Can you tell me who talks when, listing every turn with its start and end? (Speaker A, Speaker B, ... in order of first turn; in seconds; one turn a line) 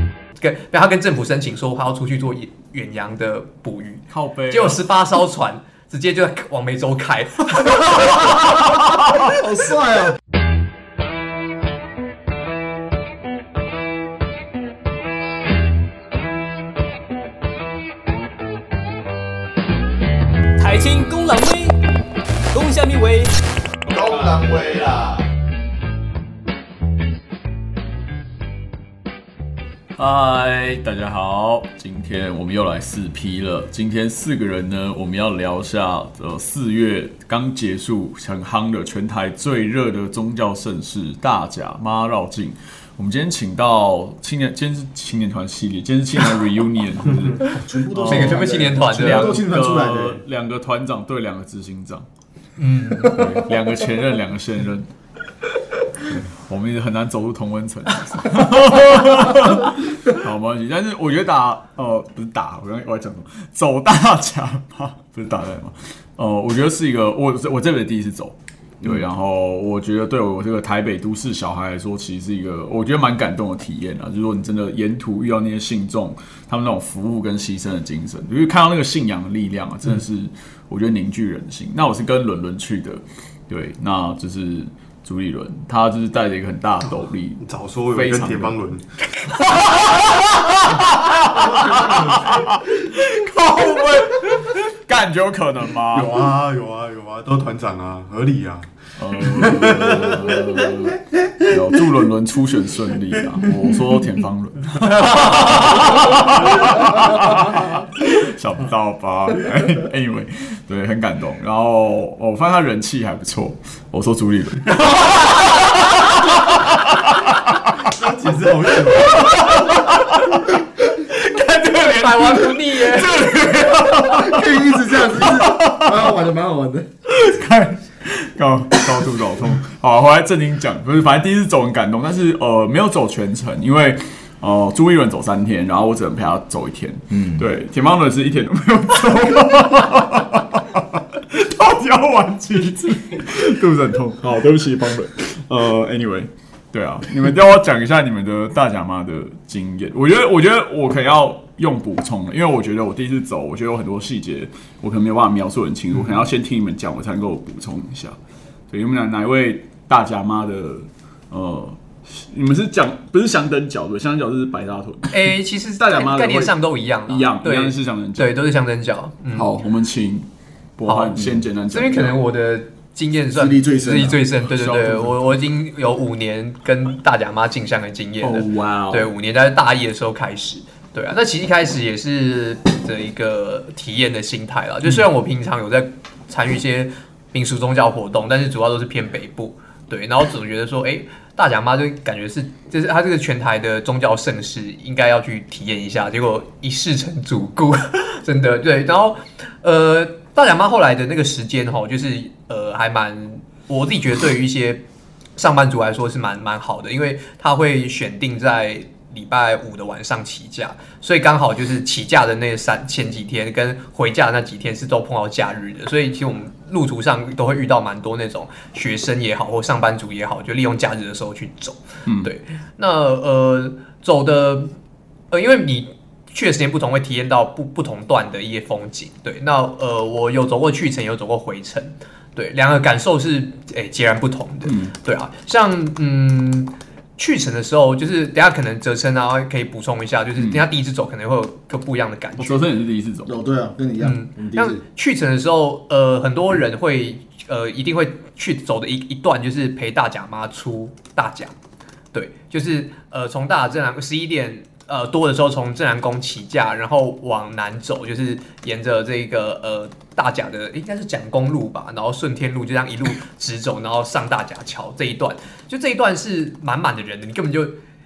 Speaker A: 0.4-8.4
Speaker B: 4.1-4.8
Speaker C: 9.1-10.2
Speaker D: 20.6-21.8
Speaker D: 22.5-23.3
Speaker C: 23.9-25.2
Speaker B: 30.0-52.1
Speaker C: 47.4-50.2
Speaker A: 48.1-49.4
Speaker A: 52.6-53.2
Speaker C: 52.9-53.6
Speaker B: 53.0-54.9
Speaker B: 56.1-88.6
Speaker E: 87.4-88.8
Speaker B: 89.3-96.2
Speaker E: 91.3-92.4
Speaker E: 95.9-100.8
Speaker B: 99.0-115.2
Speaker E: 117.8-119.7
Speaker B: 121.2-125.8
Speaker A: 121.8-123.3
Speaker C: 123.9-126.9
Speaker B: 127.1-158.2
Speaker B: 158.7-168.3
Speaker A: 165.1-169.5
Speaker B: 169.3-170.3
Speaker B: 170.8-172.2
Speaker A: 170.9-204.8
Speaker C: 173.3-174.2
Speaker B: 174.4-175.3
Speaker B: 178.2-179.1
Speaker A: 205.4-224.7
Speaker B: 222.1-222.3
Speaker A: 225.3-242.6
Speaker B: 234.7-234.9
Speaker B: 240.4-240.7
Speaker B: 242.4-243.3
Speaker C: 243.3-244.8
Speaker A: 244.0-251.5
Speaker A: 252.1-267.8